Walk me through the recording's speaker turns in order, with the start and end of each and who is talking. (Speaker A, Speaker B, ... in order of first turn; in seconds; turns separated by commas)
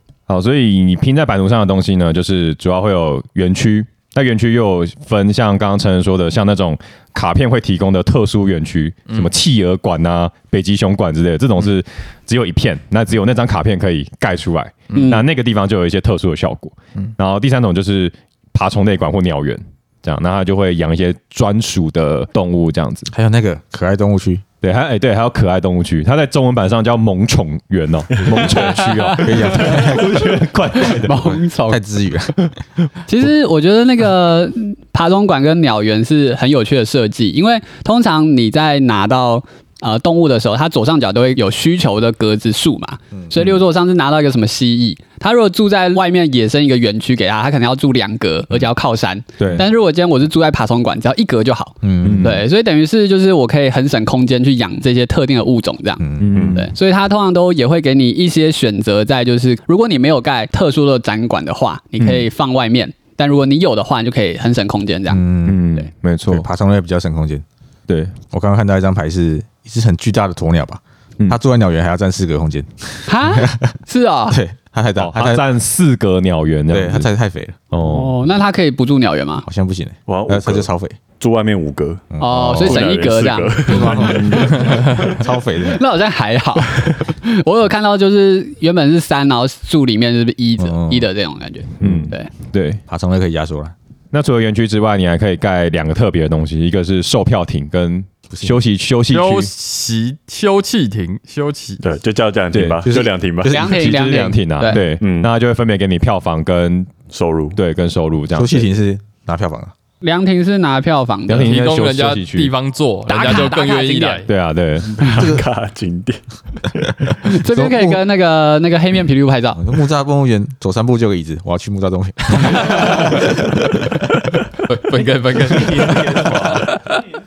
Speaker A: 0.3-23.1, Speaker B: 14.9-15.2, Speaker C: 14.9-15.2, Speaker D: 23.1-24.4, Speaker A: 24.6-31.1, Speaker C: 29.0-29.9, Speaker D: 29.1-30.3, Speaker C: 30.8-31.8, Speaker D: 31.1-32.5, Speaker C: 33.1-65.2, Speaker A: 49.4-49.6, Speaker D: 51.8-52.4, Speaker A: 52.0-52.4, Speaker D: 56.0-56.5, Speaker A: 56.2-56.6, Speaker E: 56.3-56.6, Speaker A: 62.0-62.2, Speaker D: 65.1-65.7, Speaker A: 65.4-66.5, Speaker D: 66.3-67.4, Speaker A: 67.9-68.1, Speaker D: 68.3-73.7, Speaker C: 73.0-74.4, Speaker D: 74.3-75.4, Speaker A: 75.0-77.1, Speaker D: 76.7-77.5, Speaker A: 77.7-78.1, Speaker C: 77.8-79.5, Speaker D: 79.5-81.0, Speaker E: 80.1-85.0, Speaker D: 82.1-82.8, Speaker C: 82.2-84.5, Speaker D: 83.6-85.8, Speaker A: 84.1-84.5, Speaker C: 85.7-92.3, Speaker D: 90.6-91.1, Speaker A: 91.8-92.8, Speaker D: 92.9-93.7, Speaker A: 94.1-99.5, Speaker B: 99.1-101.8, Speaker E: 101.8-103.5, Speaker A: 102.5-102.8, Speaker D: 102.8-103.9, Speaker C: 103.4-104.8, Speaker A: 103.5-107.0, Speaker E: 105.0-105.3, Speaker E: 107.1-107.6, Speaker A: 107.5-108.7, Speaker D: 108.3-109.7, Speaker C: 110.0-111.6, Speaker A: 111.3-112.5, Speaker B: 111.4-114.3, Speaker C: 113.1-114.2, Speaker A: 114.3-115.1, Speaker E: 115.0-116.2, Speaker D: 115.1-115.4, Speaker C: 117.2-119.6, Speaker D: 117.5-118.0, Speaker D: 119.5-123.6, Speaker B: 124.7-127.0